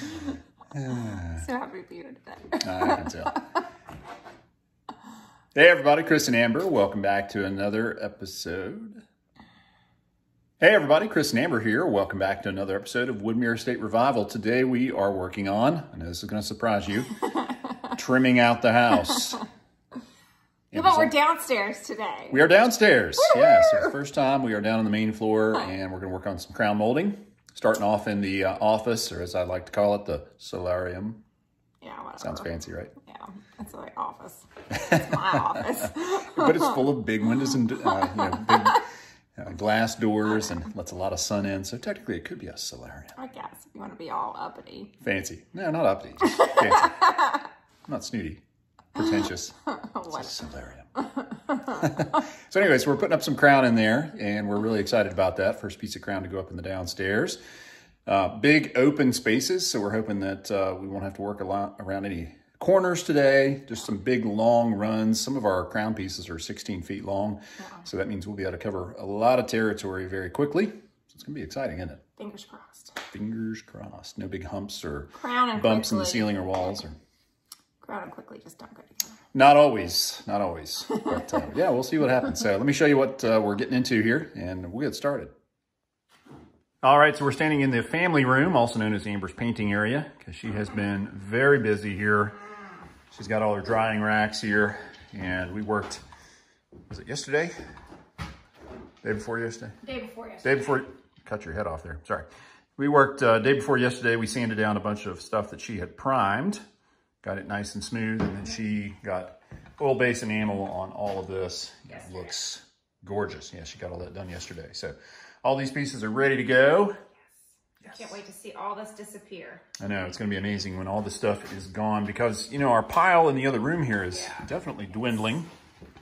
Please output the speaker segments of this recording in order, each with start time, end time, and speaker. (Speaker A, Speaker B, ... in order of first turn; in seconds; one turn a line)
Speaker A: 0.7-1.4
Speaker B: 1.3-3.3
Speaker A: 2.6-3.4
Speaker A: 5.5-9.0
Speaker A: 10.6-17.2
Speaker B: 17.4-17.7
Speaker A: 17.9-19.4
Speaker A: 20.7-21.1
Speaker B: 20.7-22.4
Speaker A: 22.3-31.2
Speaker B: 23.2-23.9
Speaker B: 31.8-32.5
Speaker A: 32.2-32.9
Speaker B: 33.0-36.9
Speaker A: 34.7-43.1
Speaker B: 37.9-38.8
Speaker B: 43.2-44.9
Speaker A: 45.0-50.9
Speaker B: 46.4-47.4
Speaker B: 49.7-50.3
Speaker B: 51.1-51.9
Speaker A: 51.7-57.4
Speaker A: 58.1-72.0
Speaker B: 67.6-67.8
Speaker B: 72.2-73.0
Speaker A: 73.1-77.0
Speaker B: 75.2-76.7
Speaker B: 77.8-79.2
Speaker A: 79.3-85.3
Speaker A: 86.8-92.4
Speaker A: 93.1-96.0
Speaker A: 96.9-97.5
Speaker A: 99.0-99.8
Speaker B: 99.8-100.8
Speaker A: 100.4-106.6
Speaker A: 107.2-117.0
Speaker B: 111.9-112.3
Speaker A: 117.8-118.2
Speaker B: 117.9-119.6
Speaker A: 119.8-125.5
Speaker B: 124.1-124.5